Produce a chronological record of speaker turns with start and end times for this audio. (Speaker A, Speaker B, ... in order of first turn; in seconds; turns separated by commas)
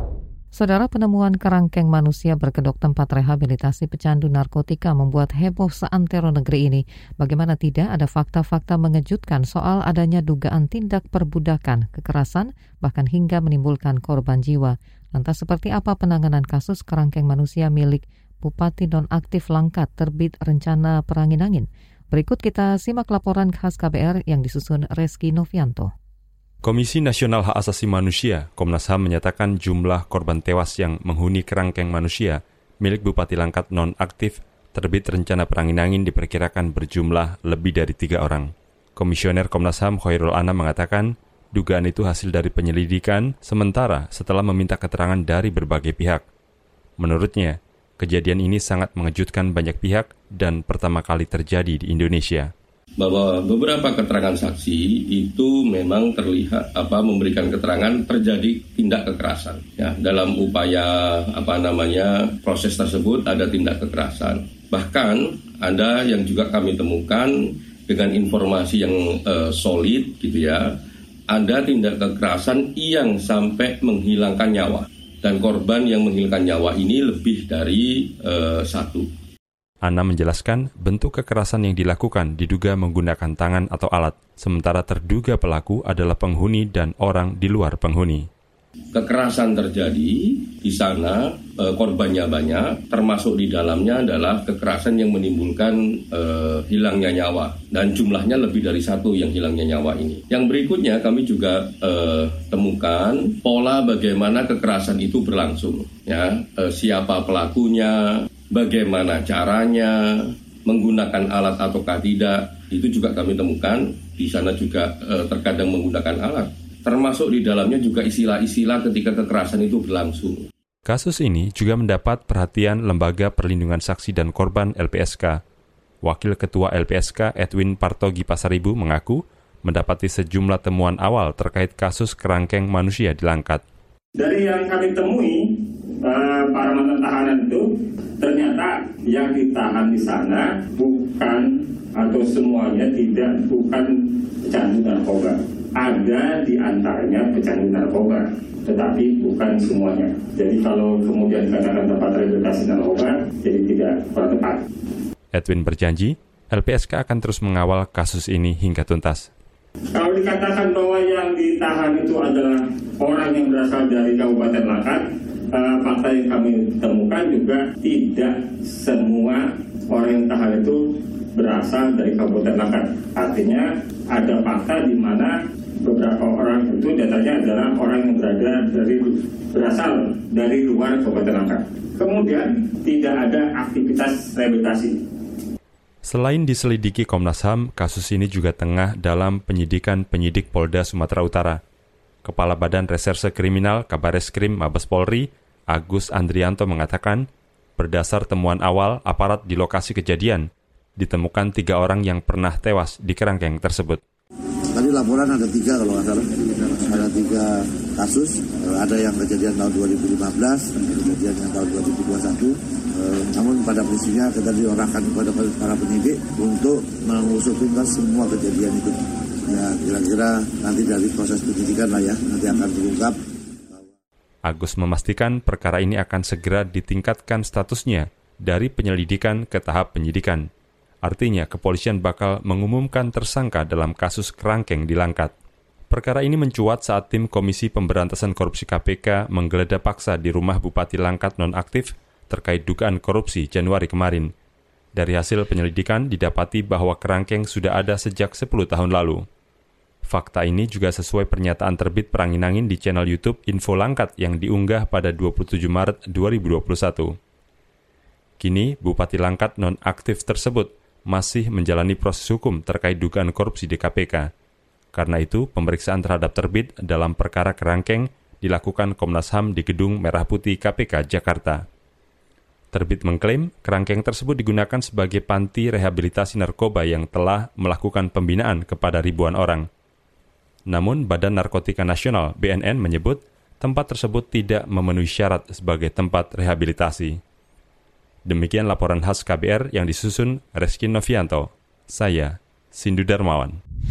Speaker A: 0.5-25.9, Speaker B: 26.6-46.2, Speaker B: 47.0-52.5, Speaker C: 53.0-70.7, Speaker C: 71.3-79.1, Speaker B: 79.8-88.3, Speaker C: 88.9-120.5, Speaker B: 120.9-125.4, Speaker B: 126.0-133.6, Speaker D: 134.2-135.4, Speaker D: 136.0-154.6, Speaker B: 155.3-159.3, Speaker D: 159.9-170.8, Speaker D: 171.3-185.0, Speaker B: 186.0-191.6, Speaker B: 192.2-197.3, Speaker B: 197.8-204.0, Speaker E: 204.7-218.9, Speaker E: 219.5-223.2, Speaker B: 224.4-230.5, Speaker B: 231.0-235.3, Speaker B: 235.9-244.3, Speaker B: 244.9-249.2, Speaker B: 250.1-257.2, Speaker B: 258.4-264.3, Speaker B: 264.9-271.6, Speaker B: 272.7-279.7, Speaker B: 280.7-287.2, Speaker B: 288.2-293.6